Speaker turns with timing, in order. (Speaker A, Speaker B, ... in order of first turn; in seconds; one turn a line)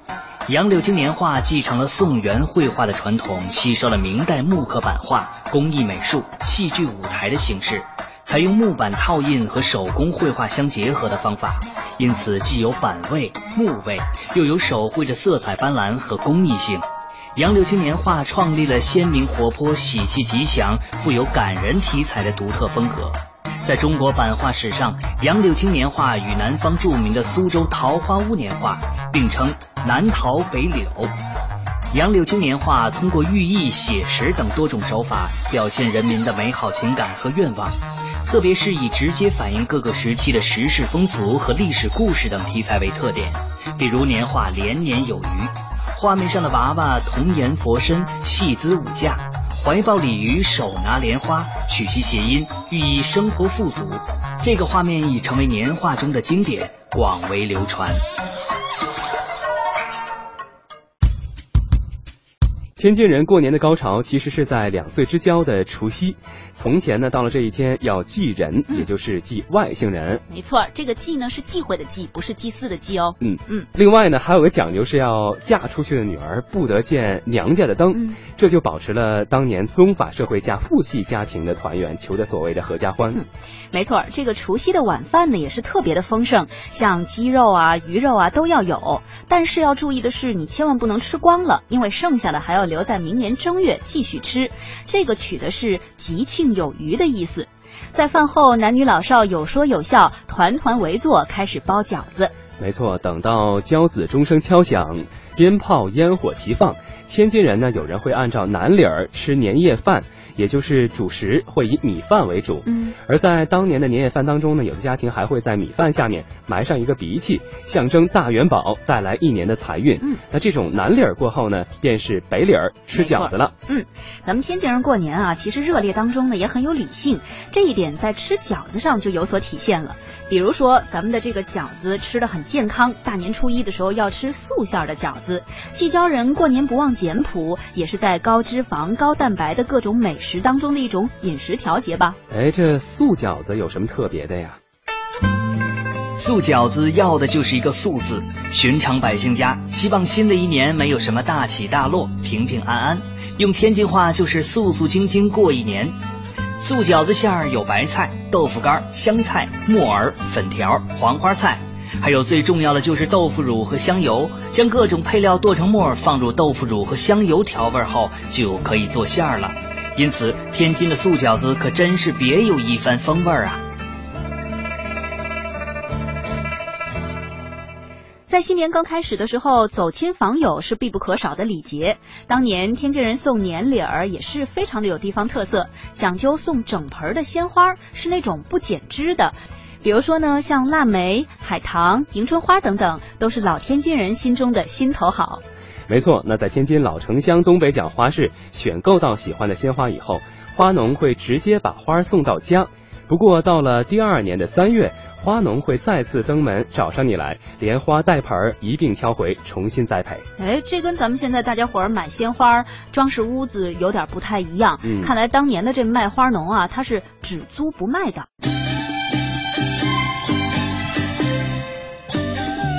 Speaker A: 0.5-31.1
Speaker A: 31.9-58.0
Speaker B: 62.8-70.2
Speaker C: 70.3-73.7
Speaker B: 73.2-83.2
Speaker C: 77.9-78.2
Speaker C: 83.1-102.3
Speaker B: 102.6-123.5
Speaker C: 112.7-113.0
Speaker C: 122.9-142.2
Speaker B: 142.3-144.6
Speaker A: 146.2-155.9
Speaker A: 156.6-173.6
Speaker C: 178.3-195.4
Speaker B: 195.9-210.2
Speaker C: 210.4-218.3
Speaker B: 214.8-215.1